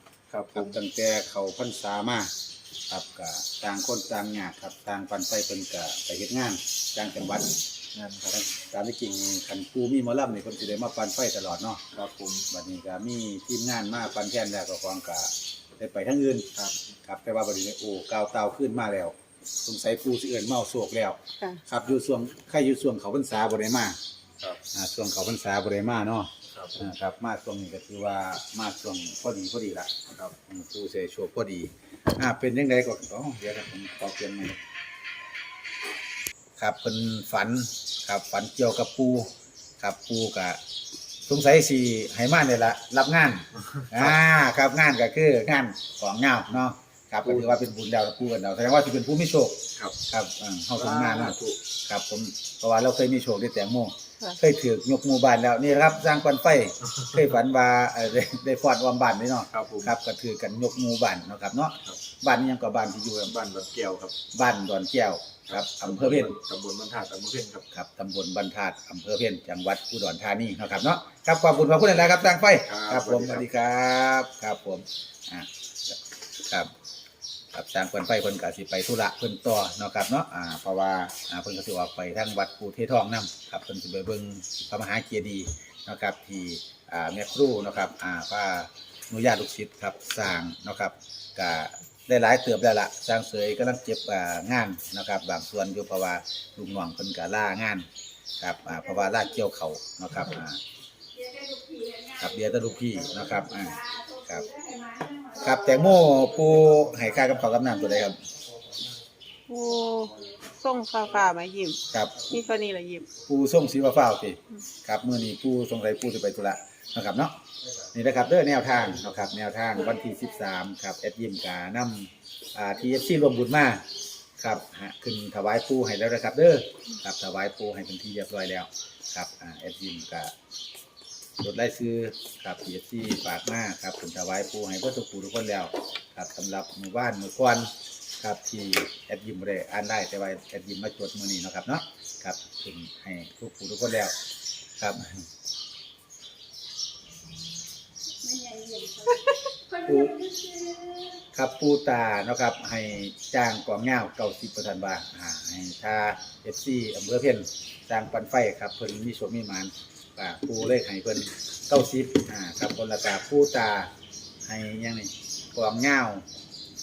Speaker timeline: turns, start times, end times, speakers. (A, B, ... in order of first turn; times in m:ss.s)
0:00.3-0:00.8 A
0:00.5-0:02.3 B
0:02.9-0:07.6 B
0:07.9-0:08.3 A
0:08.3-0:11.8 B
0:11.9-0:12.4 A
0:12.5-0:16.5 B
0:17.0-0:24.0 B
0:24.7-0:34.6 B
0:26.5-0:26.8 A
0:36.6-0:39.3 B
0:39.8-0:40.6 B
0:41.3-1:03.3 B
0:43.8-0:44.1 A
0:47.2-0:47.6 A
0:50.8-0:51.6 A
0:59.5-0:59.9 A
1:03.3-1:04.1 A
1:04.3-1:06.4 B
1:05.5-1:07.6 A
1:07.7-1:16.7 B
1:12.6-1:13.4 A
1:17.5-1:37.9 B
1:38.4-1:40.6 B
1:42.1-1:44.5 B
1:45.3-1:48.2 B
1:49.5-1:53.1 C
1:53.3-1:57.3 B
1:57.9-2:03.8 B
2:04.4-2:10.3 B
2:11.4-2:17.7 B
2:18.2-2:24.1 B
2:24.8-2:25.2 B
2:29.0-2:29.4 C
2:29.8-2:30.2 B
2:31.3-2:43.9 B
2:44.4-2:46.2 B